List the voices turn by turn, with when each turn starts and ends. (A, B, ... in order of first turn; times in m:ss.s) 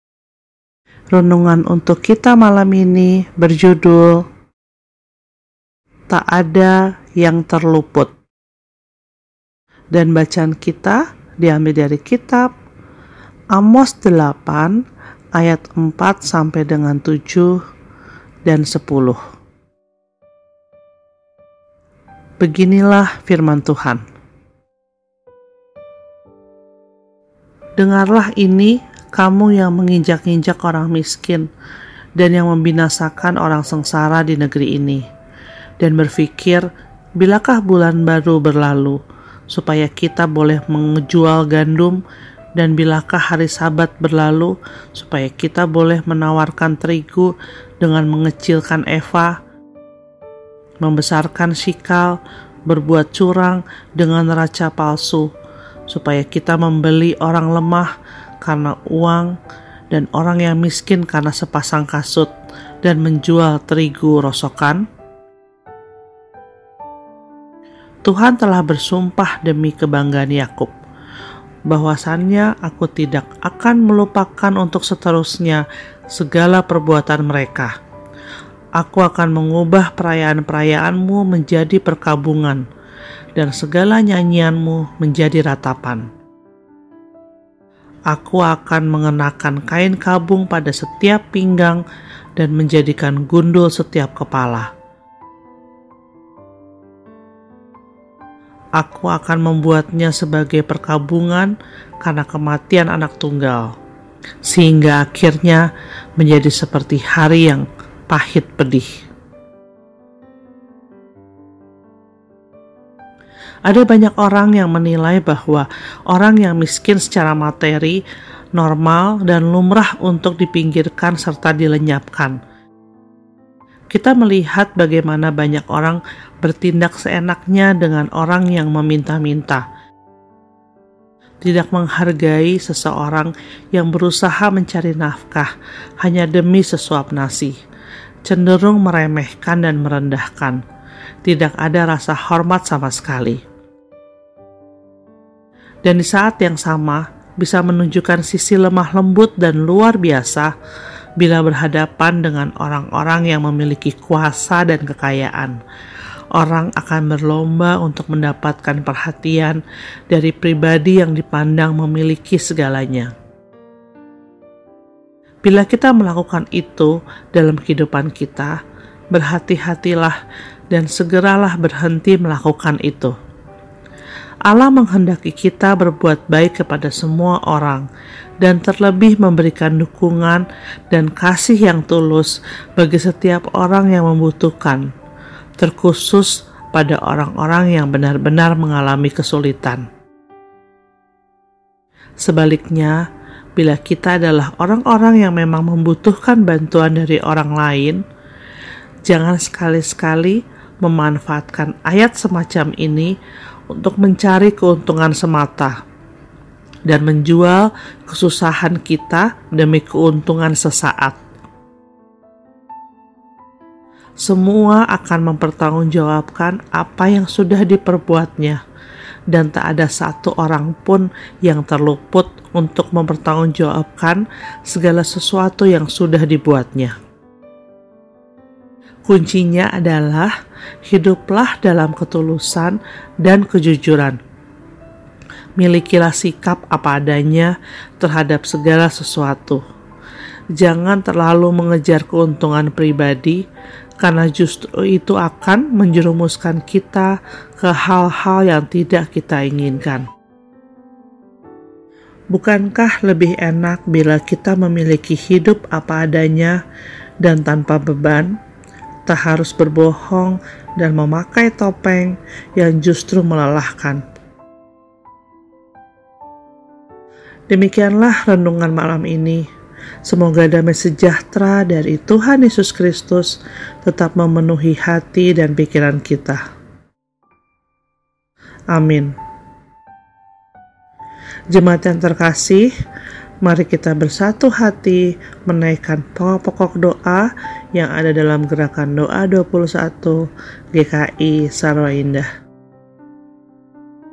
0:01.1-0:04.2 A
0:06.1-0:08.1 A
0:09.9-0:12.5 A
0:13.5-0:14.8 A
0:15.3-0:17.6 A
0:18.5-0:19.2 A
0:22.4-0:24.0 A
0:27.8-0:31.5 A
0:32.2-0:35.0 A
0:35.8-0:42.0 A
0:42.6-0:49.4 A
0:50.8-0:55.3 A
0:55.9-0:59.4 A
0:59.9-1:02.3 A
1:02.8-1:04.8 A
1:08.0-1:10.7 A
1:11.7-1:17.7 A
1:18.8-1:22.6 A
1:23.4-1:26.0 A
1:28.1-1:31.8 A
1:32.4-1:34.7 A
1:38.8-1:43.7 A
1:44.4-1:48.9 A
1:53.6-1:58.0 A
1:58.5-2:02.4 A
2:03.9-2:09.6 A
2:11.4-2:17.6 A
2:18.2-2:20.6 A
2:21.2-2:23.4 A
2:25.8-2:30.5 A
2:31.2-2:35.6 A
2:36.3-2:43.1 A
2:45.4-2:48.6 A
2:49.1-2:50.2 A
2:50.7-2:53.2 A
2:54.5-2:57.9 A
2:58.4-3:04.9 A
3:05.6-3:09.8 A
3:12.2-3:13.0 A
3:13.6-3:18.0 A
3:19.1-3:23.2 A
3:23.7-3:25.8 A
3:26.9-3:31.2 A
3:34.2-3:38.6 A
3:39.3-3:47.0 A
3:49.0-3:50.3 A
3:50.8-3:54.2 A
3:55.6-3:59.6 A
4:00.6-4:03.4 A
4:04.0-4:10.1 A
4:12.3-4:16.6 A
4:17.2-4:18.4 A
4:19.1-4:24.0 A
4:27.5-4:29.5 A
4:30.1-4:36.4 A
4:38.7-4:39.1 A
4:41.5-4:42.7 A
4:43.4-4:52.3 A